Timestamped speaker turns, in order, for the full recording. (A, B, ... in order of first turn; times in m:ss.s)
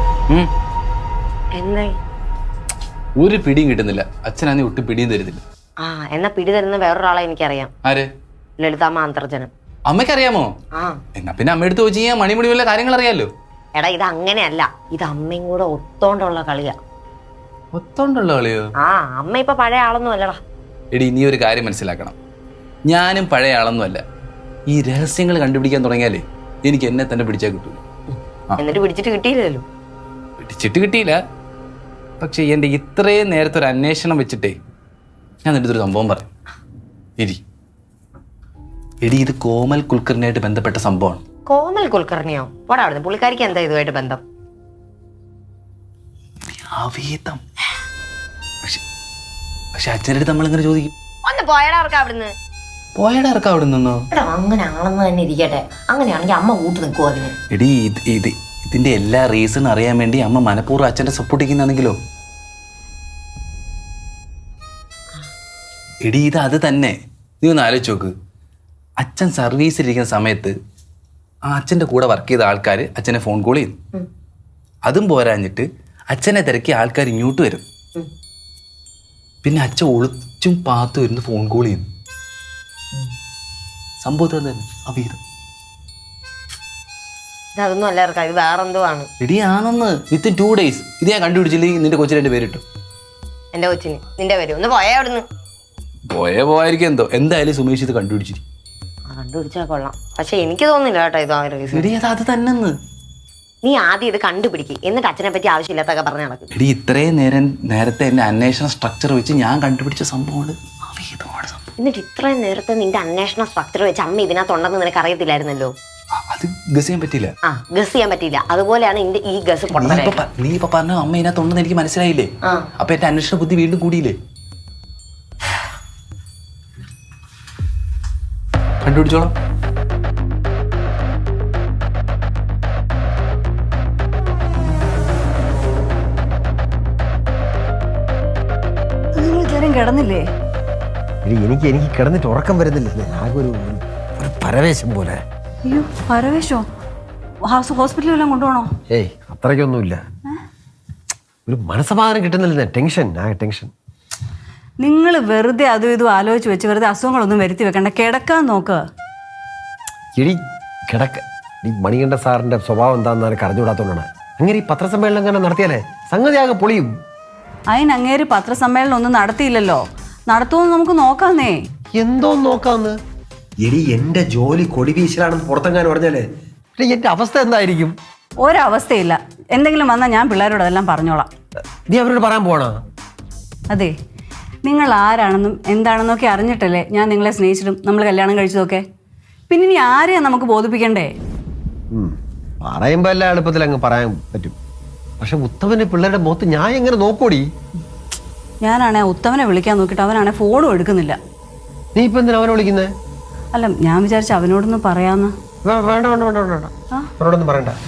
0:01.5-0:02.0 A
0:03.2-0:05.4 B
0:05.8-0:07.7 A
0:08.6-0:09.5 A
0:09.9-0:10.5 B
0:10.7-0:11.0 A
0:11.1-0:13.3 B
0:13.7-0:16.8 A
0:17.7-0:18.7 B
0:18.8-0:20.4 A
0:20.9-0:22.1 B
0:22.9-0:24.0 B
0:24.7-0:27.8 B
0:28.6-0:29.6 A
0:30.4-0:31.2 B
0:32.2-0:34.6 B
0:35.4-0:36.3 B
0:39.0-0:41.2 B
0:41.5-0:44.2 A
0:46.4-0:47.4 B
0:49.7-0:50.9 B
0:51.2-0:52.3 A
0:53.0-0:54.0 B
0:54.1-0:57.3 A
0:57.5-1:02.0 B
1:06.0-1:08.1 B
1:09.0-1:10.5 B
1:11.4-1:13.8 B
1:14.8-1:17.6 B
1:19.4-1:21.8 B
1:24.0-1:25.2 B
1:27.5-1:29.1 A
1:29.2-1:32.6 B
1:33.5-1:35.2 A
1:36.1-1:38.4 B
1:39.1-1:41.9 A
1:41.7-1:42.8 B
1:43.6-1:46.5 A
1:46.5-1:51.6 B
1:51.8-1:55.7 A
1:56.1-1:57.3 B
1:57.5-2:00.2 A
1:59.7-2:04.2 B
2:08.8-2:09.3 B
2:19.1-2:20.2 C
2:21.2-2:25.2 D
2:25.6-2:26.6 C
2:27.4-2:28.7 C
2:28.9-2:30.0 D
2:31.4-2:33.7 D
2:34.8-2:38.8 C
2:40.2-2:46.9 D
2:47.7-2:51.6 C
2:52.0-2:53.0 D
2:53.6-2:56.2 D
2:56.8-2:57.9 D
2:58.4-3:01.3 C
3:01.9-3:02.8 D
3:04.6-3:08.8 C
3:09.5-3:11.1 C
3:11.9-3:14.5 D
3:15.2-3:17.5 D
3:18.6-3:21.2 C
3:21.9-3:22.9 D
3:23.5-3:25.3 C
3:25.6-3:27.8 D